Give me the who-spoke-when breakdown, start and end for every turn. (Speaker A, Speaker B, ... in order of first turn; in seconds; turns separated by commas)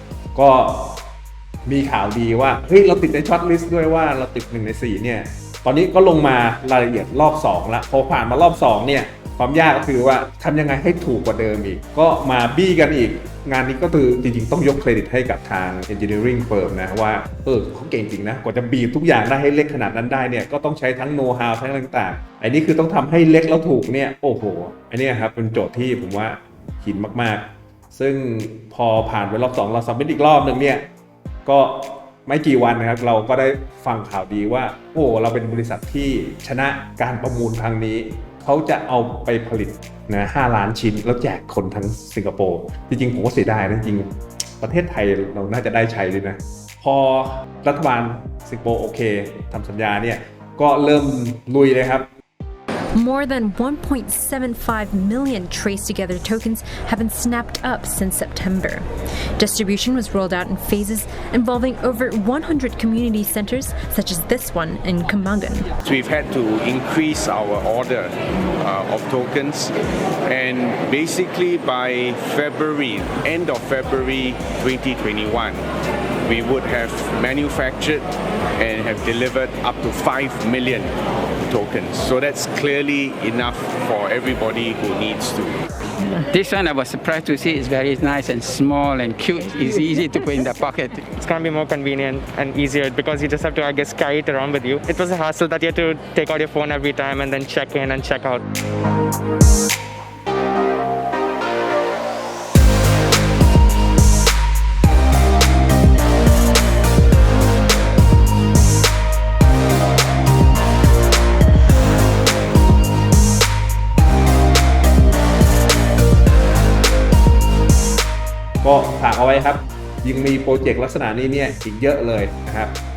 Speaker A: 0.3-1.1, Speaker A: 1.7-30.9, Speaker A: 31.5-52.1, Speaker B: 53.0-58.9, Speaker B: 59.4-65.7, Speaker C: 65.8-69.7, Speaker C: 70.3-75.6, Speaker C: 76.3-78.0, Speaker C: 78.6-80.9, Speaker C: 81.5-85.6, Speaker D: 86.0-91.1, Speaker E: 91.2-98.4, Speaker A: 118.6-122.8